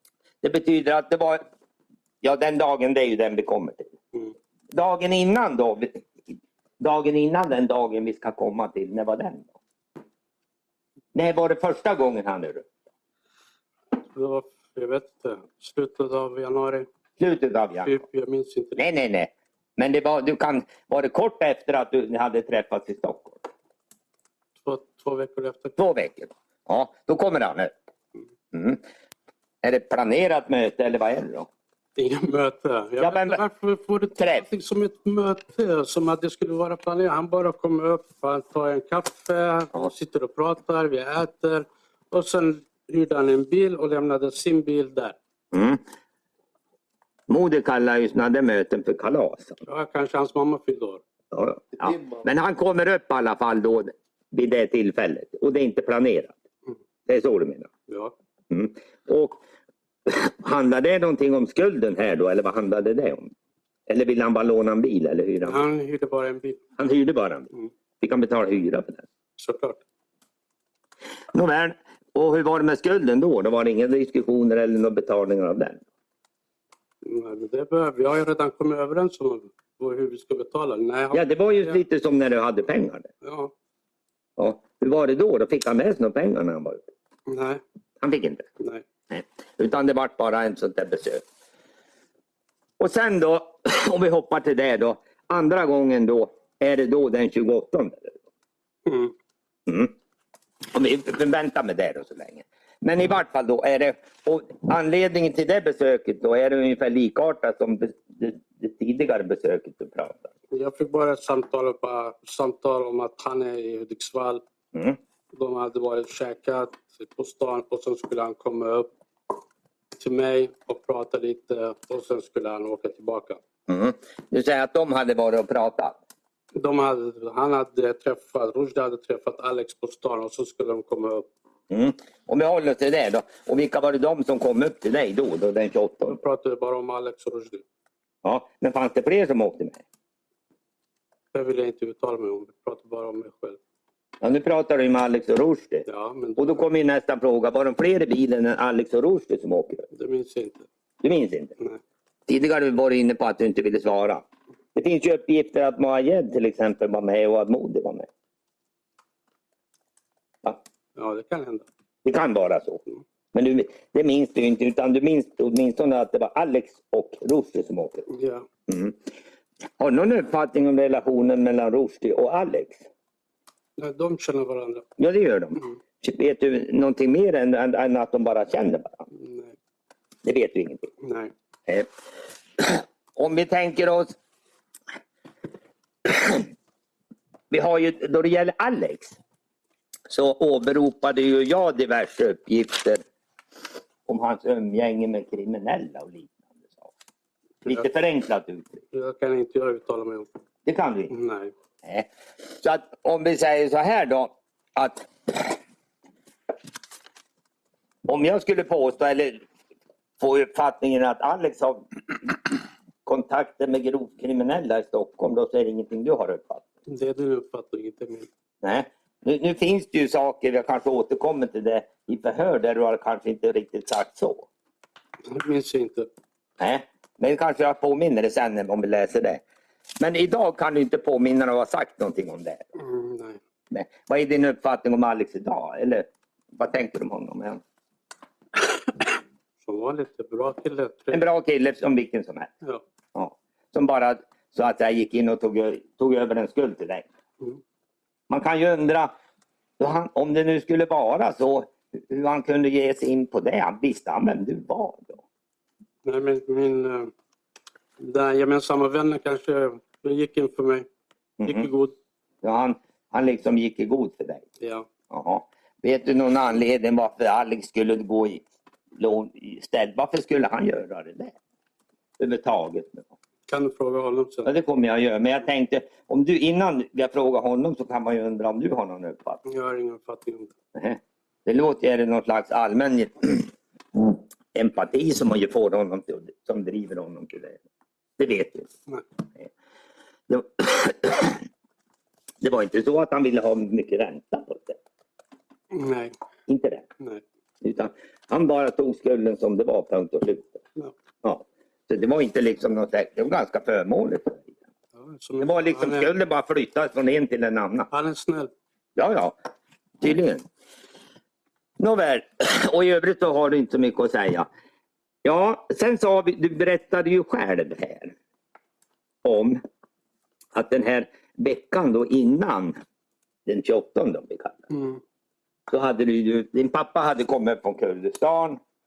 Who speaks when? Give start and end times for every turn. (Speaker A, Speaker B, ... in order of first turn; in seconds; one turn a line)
Speaker A: 0.4-1.4
Speaker A: 2.2-3.9
Speaker A: 4.7-9.5
Speaker A: 11.1-12.7
Speaker B: 14.1-16.9
Speaker A: 17.2-18.0
Speaker B: 17.8-18.8
Speaker A: 18.8-23.4
Speaker B: 24.6-25.8
Speaker A: 25.8-27.7
Speaker A: 28.5-28.8
Speaker A: 29.6-31.5
Speaker B: 32.0-45.1
Speaker A: 33.0-33.4
Speaker A: 34.1-34.4
Speaker A: 45.5-45.8
Speaker A: 47.3-49.6
Speaker B: 49.6-51.0
Speaker A: 51.3-56.3
Speaker A: 57.1-57.7
Speaker B: 57.9-58.1
Speaker A: 58.5-59.4
Speaker A: 60.0-63.3
Speaker A: 63.9-65.6
Speaker B: 65.4-66.6
Speaker A: 66.8-67.5
Speaker A: 68.0-69.0
Speaker B: 69.4-69.8
Speaker A: 71.3-75.8
Speaker B: 77.0-81.8
Speaker A: 81.1-83.1
Speaker B: 83.2-83.5
Speaker A: 84.4-86.9
Speaker B: 87.3-87.6
Speaker A: 88.0-88.5
Speaker A: 89.1-91.2
Speaker A: 92.8-98.2
Speaker B: 98.8-99.1
Speaker A: 99.7-99.9
Speaker A: 100.7-110.3
Speaker B: 110.5-114.4
Speaker B: 115.3-118.9
Speaker B: 120.0-123.4
Speaker A: 123.7-126.0
Speaker B: 126.5-131.3
Speaker A: 131.7-136.2
Speaker B: 136.1-137.6
Speaker A: 138.2-139.8
Speaker B: 141.3-143.6
Speaker A: 144.2-145.8
Speaker B: 145.9-146.6
Speaker A: 146.4-149.8
Speaker B: 149.9-150.7
Speaker A: 151.0-151.5
Speaker A: 152.3-154.2
Speaker A: 154.7-158.1
Speaker B: 160.9-161.7
Speaker A: 162.0-162.8
Speaker A: 163.3-168.1
Speaker B: 168.1-168.4
Speaker A: 168.7-169.0
Speaker A: 169.8-172.8
Speaker B: 173.8-174.8
Speaker A: 175.0-179.1
Speaker B: 179.1-179.5
Speaker A: 180.2-180.9
Speaker B: 181.0-181.3
Speaker A: 182.6-184.1
Speaker A: 186.0-186.5
Speaker A: 187.5-189.2
Speaker A: 190.1-193.0
Speaker A: 194.1-196.9
Speaker A: 197.6-198.8
Speaker B: 198.9-200.3
Speaker A: 200.7-201.1
Speaker B: 201.1-201.5
Speaker A: 201.8-205.6
Speaker A: 208.0-209.4
Speaker A: 210.2-216.6
Speaker B: 216.9-218.3
Speaker A: 218.6-224.4
Speaker B: 225.3-226.1
Speaker A: 226.6-229.4
Speaker A: 230.0-232.7
Speaker B: 232.8-233.4
Speaker A: 233.7-237.6
Speaker B: 239.6-241.2
Speaker A: 241.1-242.5
Speaker A: 243.1-247.0
Speaker A: 248.3-249.1
Speaker A: 249.8-255.2
Speaker B: 256.0-257.1
Speaker B: 258.0-260.9
Speaker A: 261.4-261.7
Speaker B: 261.4-261.9
Speaker A: 262.4-264.4
Speaker B: 264.6-264.9
Speaker A: 265.1-268.4
Speaker A: 268.9-271.3
Speaker A: 272.2-273.1
Speaker B: 273.5-274.5
Speaker A: 274.4-279.4
Speaker B: 279.4-280.5
Speaker A: 280.7-287.6
Speaker A: 288.2-288.7
Speaker A: 290.3-291.4
Speaker A: 292.4-294.8
Speaker B: 295.7-296.1
Speaker A: 296.5-296.9
Speaker A: 297.6-300.6
Speaker A: 301.2-304.5
Speaker B: 305.0-306.1
Speaker A: 305.4-307.9
Speaker B: 307.9-308.5
Speaker A: 308.9-309.4
Speaker A: 310.0-310.4
Speaker A: 311.8-314.5
Speaker A: 315.2-318.1
Speaker A: 319.2-319.6
Speaker A: 320.5-322.8
Speaker A: 323.4-324.7
Speaker B: 324.7-325.0
Speaker A: 325.7-328.6